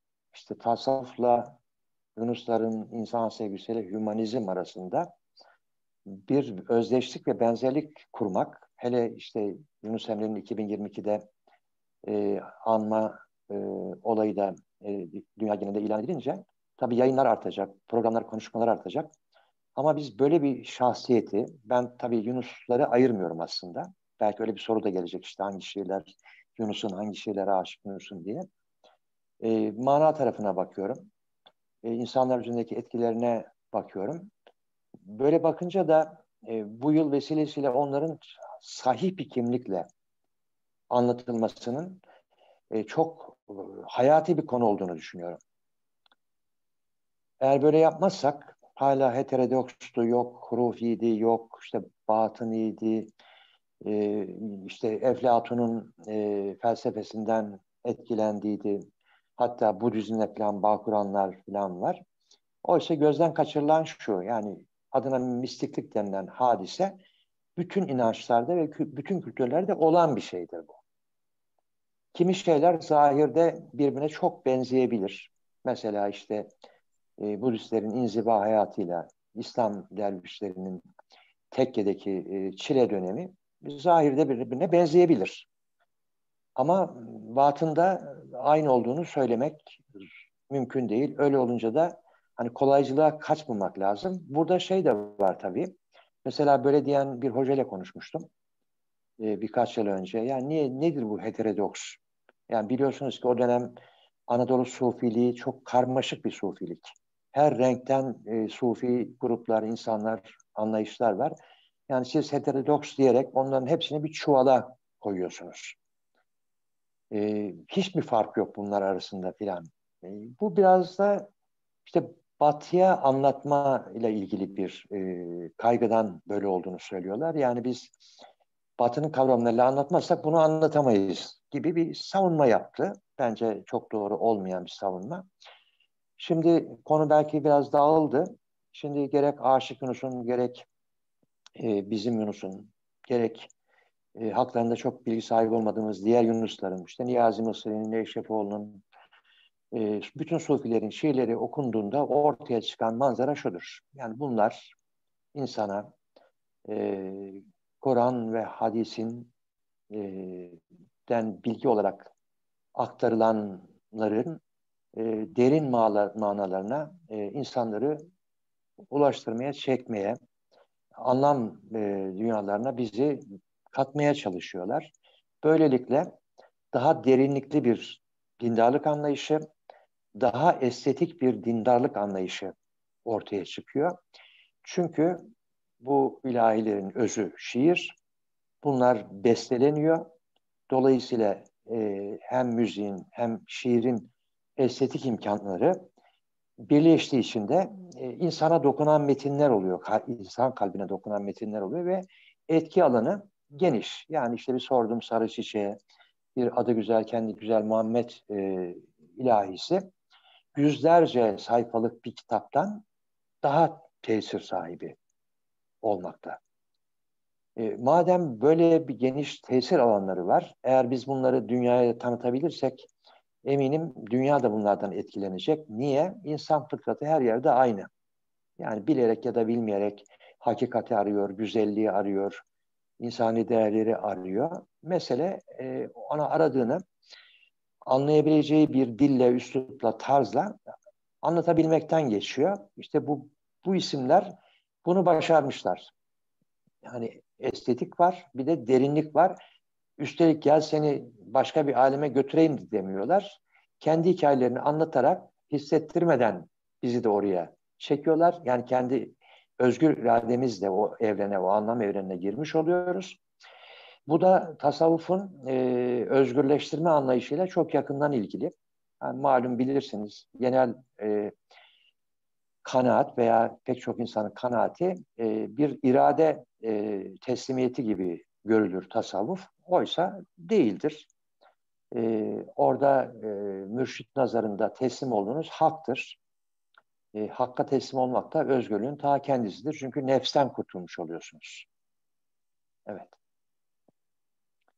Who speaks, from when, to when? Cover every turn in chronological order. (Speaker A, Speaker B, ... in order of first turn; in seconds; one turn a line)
Speaker A: 0.3-1.6
Speaker A: 2.1-5.1
Speaker A: 6.1-11.2
Speaker A: 12.0-19.1
Speaker A: 19.8-28.4
Speaker A: 29.4-31.1
Speaker A: 31.8-34.3
Speaker A: 35.0-39.9
Speaker A: 40.9-42.0
Speaker A: 42.7-45.4
Speaker A: 47.4-53.1
Speaker A: 53.8-58.8
Speaker A: 59.4-62.0
Speaker A: 62.6-67.0
Speaker A: 67.5-70.8
Speaker A: 72.1-76.5
Speaker A: 77.2-80.8
Speaker A: 81.5-85.5
Speaker A: 86.5-89.8
Speaker A: 90.5-98.3
Speaker A: 99.2-103.8
Speaker A: 104.3-111.3
Speaker A: 111.9-115.8
Speaker A: 117.1-121.3
Speaker A: 121.8-128.0
Speaker A: 128.8-135.3
Speaker A: 136.2-140.7
Speaker A: 141.6-143.5
Speaker A: 144.2-148.8
Speaker A: 149.7-154.7
Speaker A: 155.3-155.9
Speaker A: 156.7-159.3
Speaker A: 159.9-162.1
Speaker A: 162.7-164.4
Speaker A: 164.9-168.0
Speaker A: 168.9-170.2
Speaker A: 171.0-174.9
Speaker A: 175.4-176.1
Speaker A: 176.7-179.4
Speaker A: 180.2-182.5
Speaker A: 183.0-183.9
Speaker A: 184.6-185.2
Speaker A: 185.8-187.9
Speaker A: 188.6-190.1
Speaker A: 190.7-195.8
Speaker A: 196.6-205.8
Speaker A: 206.3-209.9
Speaker A: 210.5-212.8
Speaker A: 213.4-214.9
Speaker A: 215.8-216.4
Speaker A: 217.6-222.9
Speaker A: 223.4-227.9
Speaker A: 228.6-232.4
Speaker A: 233.0-236.8
Speaker A: 237.8-240.6
Speaker A: 241.2-245.9
Speaker A: 246.8-249.4
Speaker A: 250.0-263.2
Speaker A: 264.1-271.3
Speaker A: 272.6-281.1
Speaker A: 281.9-286.2
Speaker A: 287.1-291.7
Speaker A: 292.9-293.1